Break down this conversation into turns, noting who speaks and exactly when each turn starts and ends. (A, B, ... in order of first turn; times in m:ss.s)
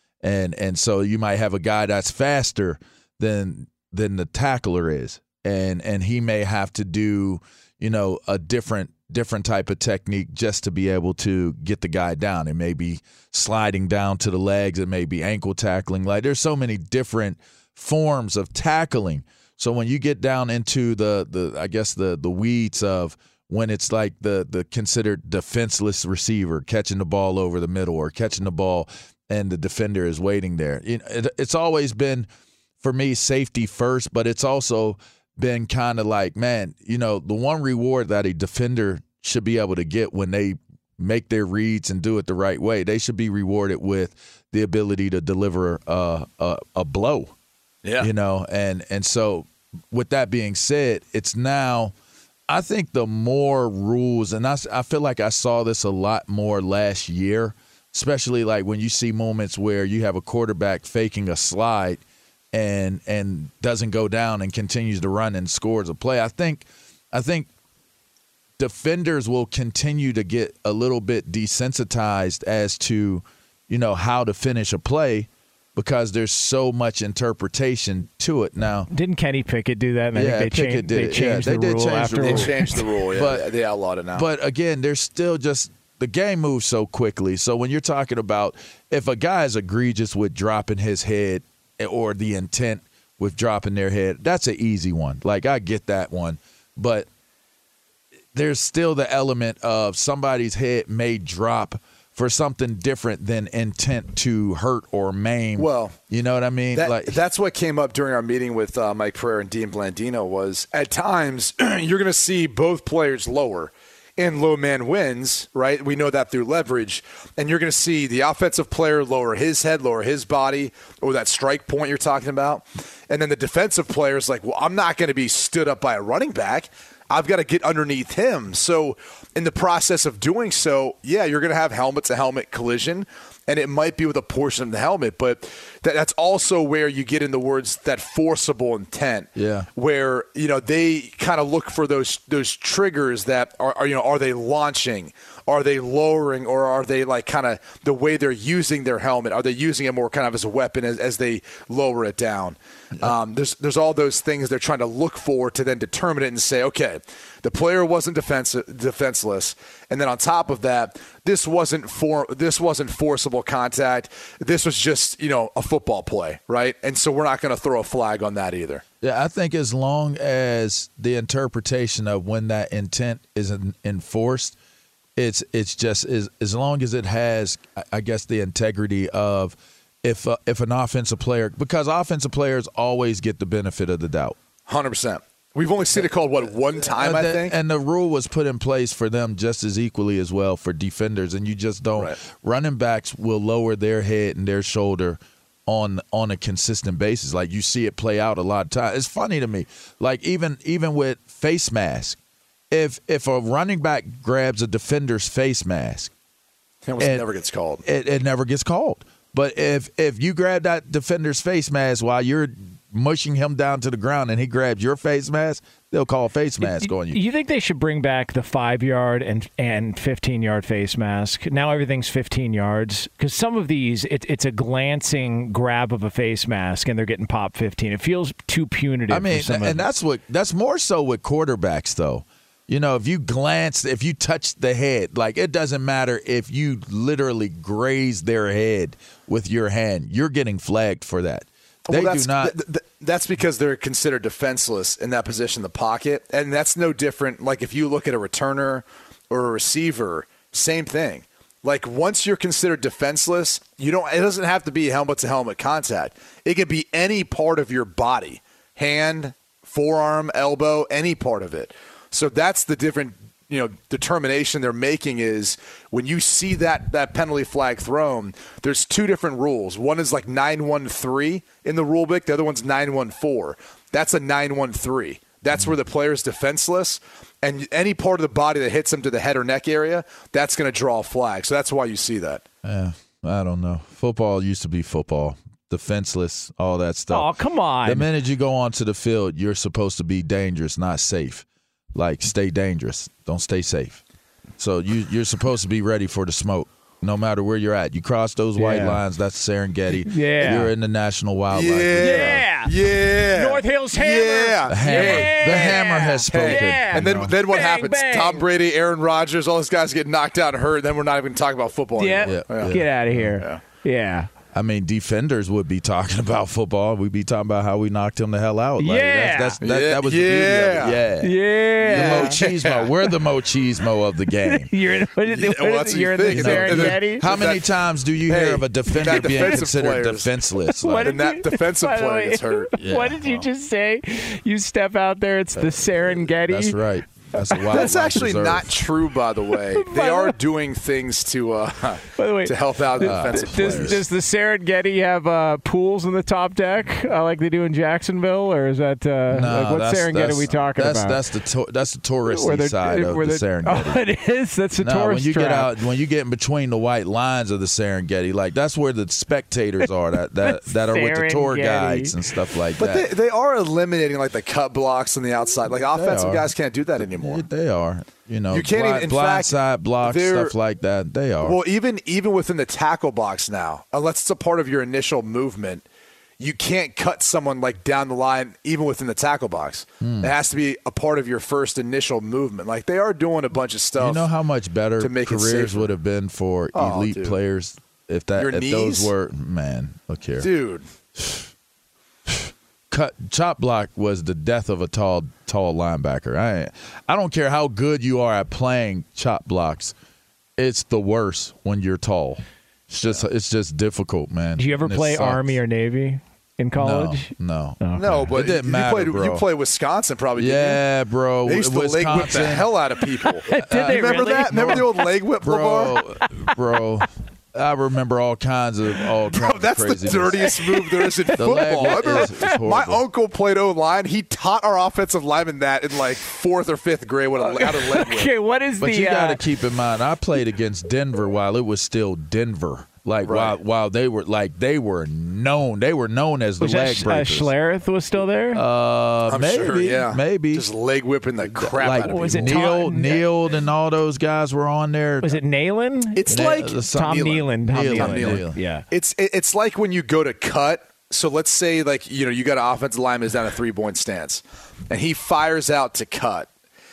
0:00.2-0:32.3 A
0:32.8-0:47.3 A
0:47.8-0:48.1 B
0:48.0-0:51.9 A
0:52.5-1:02.0 A
1:02.5-1:07.5 A
1:08.6-1:18.9 A
1:18.9-1:22.8 C
1:20.1-1:23.5 A
1:22.2-1:24.3 B
1:24.1-1:37.1 A
1:38.3-1:47.2 A
1:45.6-1:46.0 B
1:46.7-2:48.8 B
2:19.4-2:19.7 A
2:49.0-2:54.6 A
2:55.2-3:04.4 A
3:04.7-3:07.6 B
3:06.9-3:22.2 A
3:22.7-3:26.1 A
3:26.8-3:27.8 B
3:27.0-3:27.3 A
3:27.8-3:37.2 A
3:36.6-3:49.8 C
3:49.1-4:02.6 A
4:01.9-4:42.4 B
4:42.6-4:47.3 A
4:47.1-4:48.1 C
4:47.8-4:54.0 A
4:54.6-5:02.4 A
4:58.6-4:59.0 C
5:00.1-5:00.7 C
5:01.5-5:12.8 B
5:02.0-5:02.7 C
5:03.3-5:08.4 C
5:04.7-5:07.3 A
5:12.0-5:14.3 C
5:12.2-5:13.4 A
5:14.5-5:24.7 A
5:18.8-5:19.6 C
5:19.6-5:21.0 B
5:21.2-5:22.4 C
5:21.9-5:22.9 B
5:24.6-5:27.3 C
5:25.3-5:27.7 B
5:26.3-5:31.2 A
5:28.2-5:30.4 B
5:28.9-5:29.5 C
5:30.8-5:36.8 C
5:31.0-5:32.7 B
5:32.8-5:33.4 A
5:35.6-5:38.7 A
5:37.6-5:37.8 C
5:37.7-5:44.0 B
5:39.8-5:40.4 C
5:42.2-5:51.2 C
5:43.0-5:44.0 A
5:49.3-5:54.0 A
5:52.3-5:55.7 C
5:54.8-6:03.1 A
6:00.4-6:02.2 C
6:02.8-6:07.4 B
6:05.9-6:11.6 A
6:08.5-6:10.5 B
6:11.4-6:15.8 B
6:16.4-6:24.3 B
6:20.0-6:20.3 A
6:24.0-6:30.5 A
6:25.0-6:25.9 B
6:26.7-6:27.4 B
6:28.4-6:29.1 B
6:30.4-6:30.8 B
6:31.2-6:31.4 A
6:32.3-6:40.0 A
6:40.6-6:45.6 A
6:44.6-6:48.1 C
6:46.8-6:49.4 A
6:48.0-6:50.8 B
6:50.4-6:52.7 A
6:51.4-6:56.0 B
6:53.5-6:55.1 C
6:53.5-6:54.0 A
6:55.4-7:00.5 A
6:59.3-7:08.3 B
7:00.5-7:02.5 C
7:01.4-7:03.0 A
7:07.4-7:09.4 C
7:08.8-7:17.5 A
7:13.2-7:13.6 B
7:16.6-7:18.6 C
7:18.5-7:20.7 A
7:19.3-7:22.6 B
7:21.6-7:25.4 A
7:22.1-7:23.3 C
7:25.2-7:28.8 C
7:26.2-7:36.5 B
7:26.3-7:28.6 A